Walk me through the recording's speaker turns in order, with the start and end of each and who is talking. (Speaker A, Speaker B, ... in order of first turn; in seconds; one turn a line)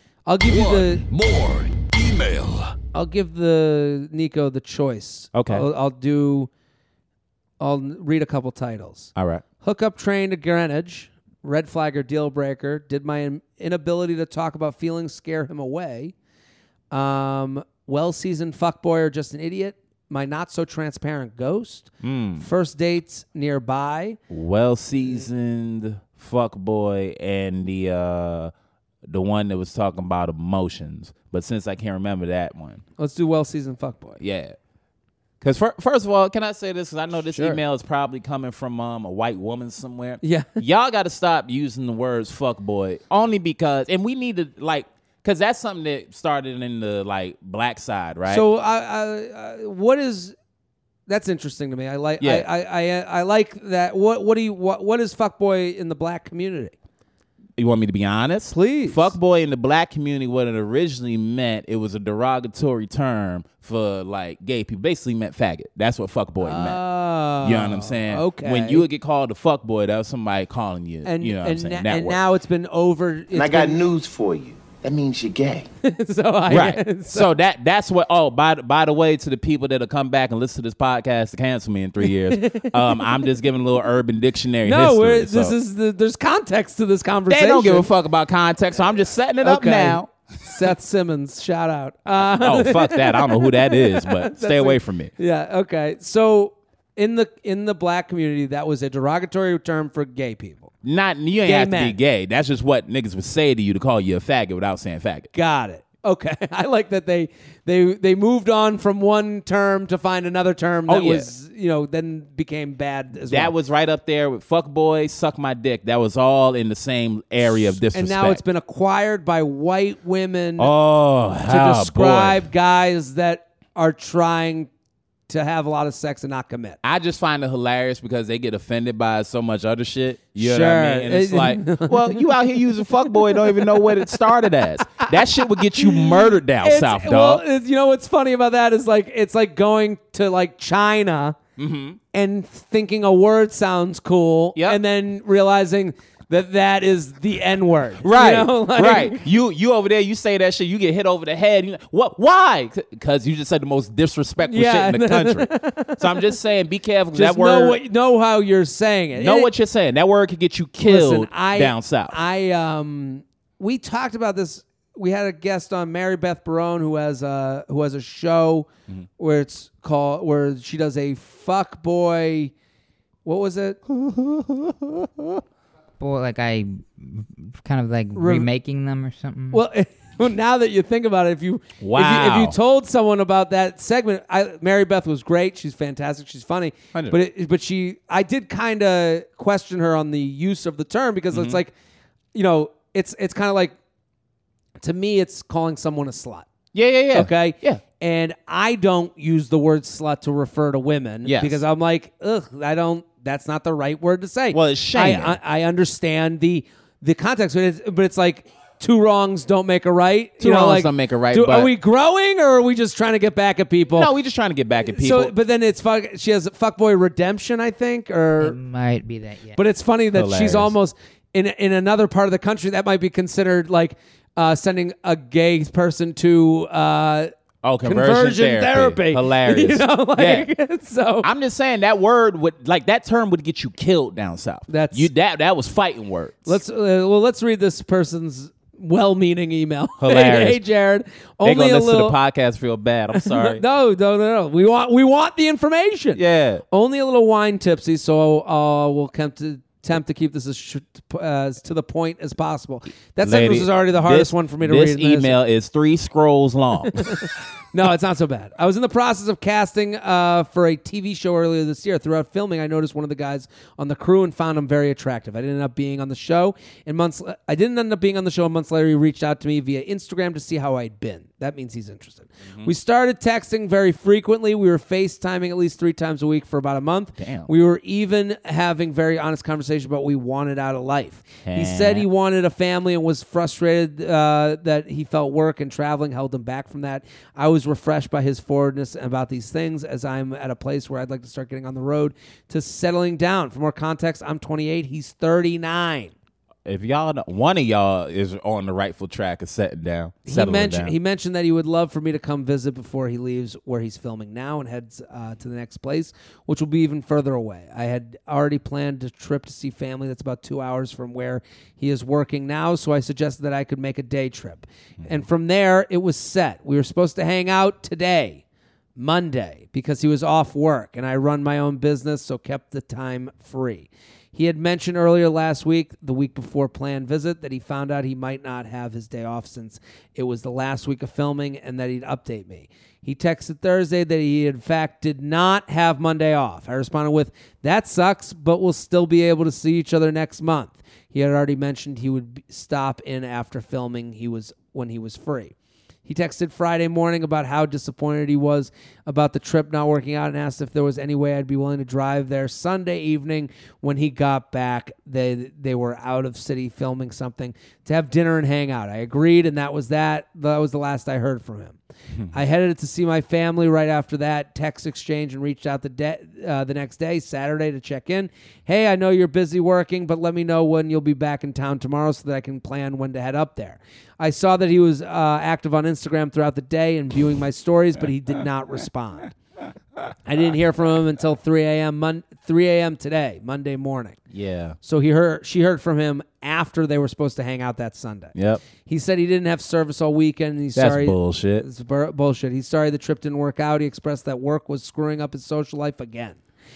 Speaker A: 0.3-1.0
Speaker B: 0.5-2.8
Speaker A: 2.9-6.5
Speaker C: 5.3-5.7
Speaker A: 7.6-16.1
Speaker C: 9.2-9.4
Speaker A: 16.9-24.2
Speaker C: 22.0-22.5
Speaker C: 24.3-28.5
Speaker C: 29.1-32.8
Speaker A: 33.0-34.2
Speaker C: 34.2-34.6
Speaker C: 35.4-48.5
Speaker A: 37.3-37.6
Speaker A: 40.2-40.6
Speaker A: 48.3-50.4
Speaker A: 51.1-56.8
Speaker C: 52.2-52.5
Speaker C: 57.6-66.8
Speaker A: 58.5-59.1
Speaker A: 66.4-68.9
Speaker C: 67.4-72.2
Speaker A: 71.0-73.9
Speaker D: 73.5-75.5
Speaker B: 73.7-74.1
Speaker A: 75.8-77.3
Speaker C: 76.5-85.5
Speaker A: 82.3-83.0
Speaker A: 84.6-87.9
Speaker C: 87.3-90.1
Speaker A: 89.4-100.7
Speaker C: 92.2-95.1
Speaker C: 100.8-105.3
Speaker A: 101.4-102.0
Speaker A: 105.3-113.5
Speaker C: 110.9-111.3
Speaker C: 113.3-118.4
Speaker A: 117.8-120.7
Speaker C: 120.6-122.5
Speaker A: 121.5-124.7
Speaker A: 125.3-126.8
Speaker C: 126.8-137.4
Speaker A: 130.4-132.3
Speaker A: 133.4-133.7
Speaker A: 135.8-141.4
Speaker C: 141.6-142.0
Speaker A: 142.1-149.2
Speaker C: 144.6-144.8
Speaker C: 148.0-157.8
Speaker A: 154.4-156.2
Speaker A: 157.1-159.5
Speaker C: 159.2-162.2
Speaker A: 160.8-168.7
Speaker A: 169.2-172.5
Speaker A: 173.2-173.8
Speaker C: 173.9-175.4
Speaker E: 176.0-179.6
Speaker A: 178.2-178.5
Speaker A: 179.5-191.7
Speaker C: 181.8-182.6
Speaker C: 191.3-191.6
Speaker A: 192.3-193.8
Speaker A: 194.8-196.5
Speaker C: 196.7-197.8
Speaker A: 197.1-214.1
Speaker C: 201.2-201.6
Speaker C: 204.5-205.4
Speaker C: 210.4-211.7
Speaker C: 213.9-215.3
Speaker A: 214.8-218.6
Speaker E: 218.4-219.6
Speaker A: 219.6-227.3
Speaker C: 220.1-220.7
Speaker C: 227.6-230.5
Speaker A: 227.8-231.3
Speaker C: 231.2-236.6
Speaker A: 234.7-235.1
Speaker A: 236.5-242.2
Speaker C: 240.0-240.6
Speaker C: 241.4-243.6
Speaker A: 243.1-255.4
Speaker C: 246.2-246.6
Speaker C: 253.2-257.3
Speaker A: 256.9-296.1
Speaker C: 272.5-272.7
Speaker C: 277.2-277.5
Speaker C: 281.4-282.1
Speaker C: 296.6-300.9
Speaker A: 300.3-318.4
Speaker A: 319.0-345.5
Speaker A: 346.1-361.8
Speaker A: 362.3-379.3
Speaker A: 380.3-384.2
Speaker C: 384.3-384.8
Speaker A: 384.8-396.4
Speaker C: 388.4-388.6
Speaker C: 390.8-391.6